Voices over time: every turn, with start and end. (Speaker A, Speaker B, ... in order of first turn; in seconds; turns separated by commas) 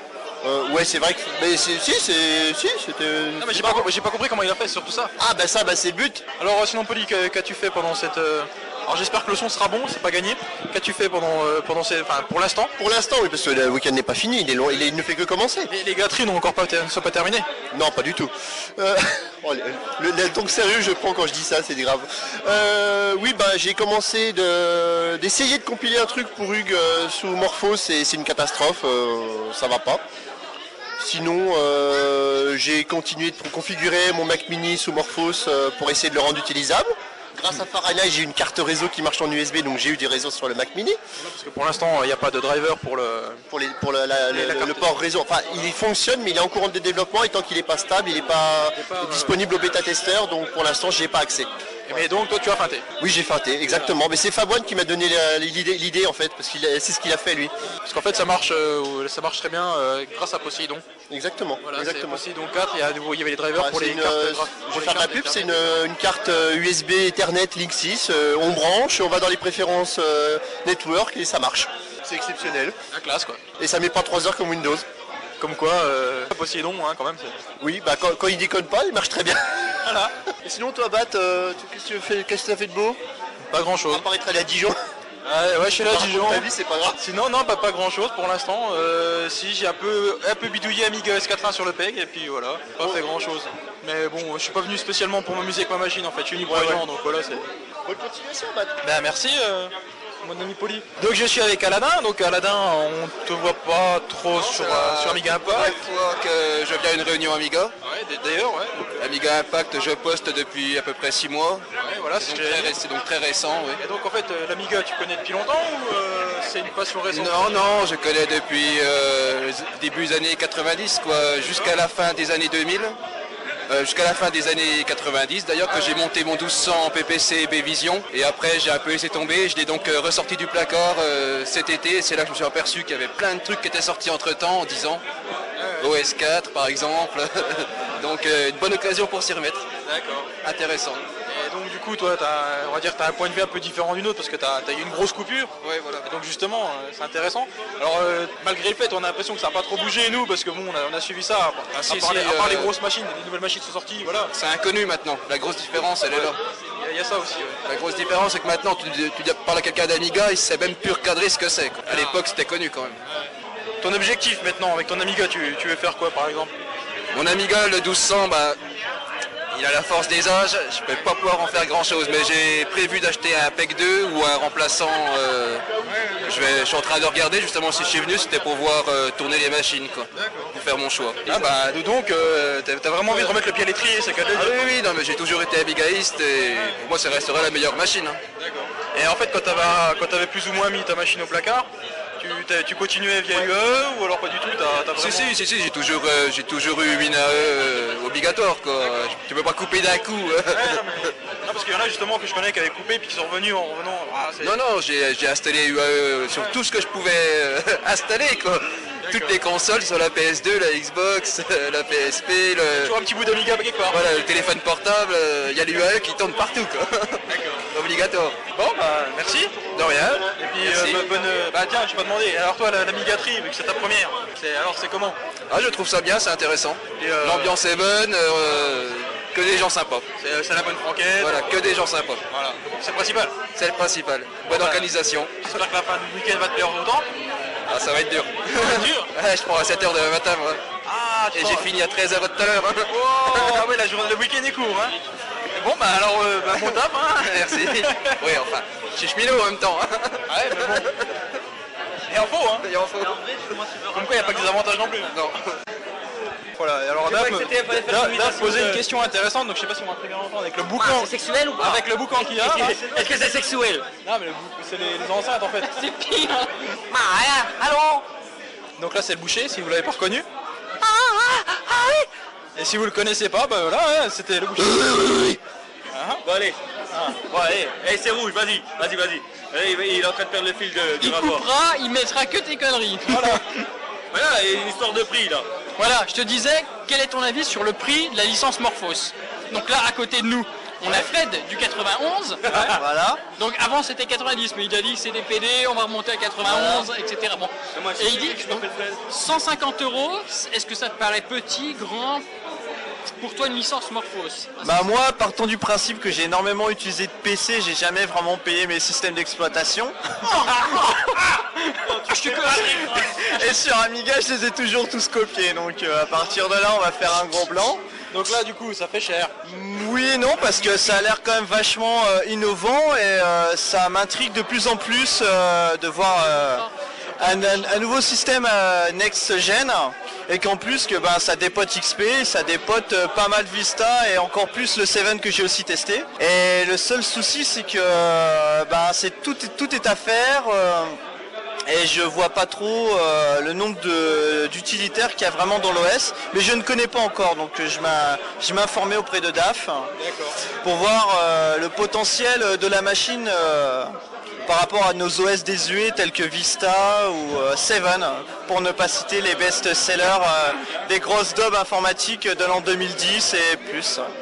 Speaker A: 0.4-3.9, Speaker B: 3.4-5.1, Speaker A: 5.2-6.2, Speaker B: 6.4-12.7, Speaker A: 12.8-15.7, Speaker B: 15.7-17.5, Speaker A: 17.7-30.0, Speaker A: 31.0-41.0, Speaker B: 41.2-43.4, Speaker A: 43.5-52.1, Speaker B: 44.3-44.9, Speaker B: 48.8-49.4, Speaker B: 51.9-52.9, Speaker A: 53.0-57.5, Speaker B: 53.6-54.0, Speaker B: 57.9-60.8, Speaker A: 61.1-62.2, Speaker B: 61.6-65.7, Speaker A: 63.5-72.8, Speaker B: 72.9-73.4, Speaker A: 73.6-74.9, Speaker B: 75.4-77.4, Speaker A: 77.6-79.8, Speaker B: 79.8-80.1, Speaker A: 80.4-83.0, Speaker B: 83.5-84.0, Speaker A: 83.9-84.8, Speaker B: 85.2-97.5, Speaker A: 85.8-87.0, Speaker A: 96.4-96.8, Speaker A: 97.9-98.8, Speaker B: 98.8-105.8, Speaker C: 104.3-107.7, Speaker B: 107.8-109.1, Speaker C: 109.0-111.7, Speaker B: 111.8-112.8, Speaker C: 112.2-113.8, Speaker B: 113.8-117.6, Speaker C: 117.1-123.0, Speaker B: 121.4-121.7, Speaker C: 123.7-135.0, Speaker B: 125.7-126.0, Speaker B: 135.6-135.9, Speaker C: 135.8-139.7, Speaker B: 139.8-140.3, Speaker C: 140.4-141.0, Speaker B: 141.3-154.3, Speaker C: 145.6-146.1, Speaker C: 151.7-152.7, Speaker C: 154.3-156.4, Speaker B: 156.1-157.6, Speaker C: 157.7-163.0, Speaker B: 161.9-162.2, Speaker B: 163.8-166.5, Speaker C: 167.1-168.6, Speaker C: 169.5-175.7, Speaker B: 175.9-176.4, Speaker C: 176.2-181.4, Speaker B: 180.2-180.5, Speaker B: 181.2-184.6, Speaker C: 184.3-188.2, Speaker B: 188.4-191.7, Speaker B: 192.2-195.3, Speaker C: 195.0-201.1, Speaker B: 200.5-204.6, Speaker C: 204.4-213.0, Speaker B: 209.0-209.4, Speaker B: 212.8-214.0, Speaker C: 213.9-218.4, Speaker B: 217.3-217.6, Speaker B: 218.6-219.6, Speaker C: 219.7-221.1, Speaker B: 220.4-225.2, Speaker C: 225.5-230.1, Speaker B: 227.0-227.6, Speaker B: 230.2-231.5, Speaker C: 231.2-232.2, Speaker B: 232.3-233.3, Speaker C: 233.6-235.5, Speaker B: 234.4-234.9, Speaker B: 235.4-237.1, Speaker C: 237.7-240.6, Speaker B: 238.6-239.1, Speaker B: 240.8-241.7, Speaker C: 241.3-243.7, Speaker B: 242.9-245.0, Speaker B: 245.6-248.2, Speaker C: 246.5-251.1, Speaker B: 250.3-250.9, Speaker B: 252.1-252.7, Speaker C: 252.6-253.2, Speaker D: 253.0-254.6, Speaker B: 253.9-255.1, Speaker C: 255.0-255.6, Speaker B: 256.6-263.0, Speaker D: 257.0-258.8, Speaker D: 260.8-263.9, Speaker B: 264.0-265.8, Speaker E: 265.6-266.7, Speaker D: 266.9-268.0, Speaker B: 268.8-270.3, Speaker D: 270.8-272.1, Speaker B: 272.6-275.4, Speaker B: 275.9-276.2, Speaker D: 276.2-281.5, Speaker E: 281.0-283.4, Speaker B: 283.1-283.4, Speaker D: 284.1-285.5, Speaker E: 285.8-292.6, Speaker F: 292.7-293.2, Speaker E: 293.4-302.3, Speaker F: 296.4-296.9, Speaker D: 297.7-299.0, Speaker E: 303.2-304.9, Speaker F: 304.6-310.0, Speaker E: 310.3-313.6, Speaker F: 312.2-317.8, Speaker B: 318.1-319.4, Speaker F: 319.4-326.7, Speaker E: 326.2-327.9, Speaker F: 327.2-341.0, Speaker F: 341.7-349.9, Speaker B: 350.0-350.4, Speaker F: 350.6-364.1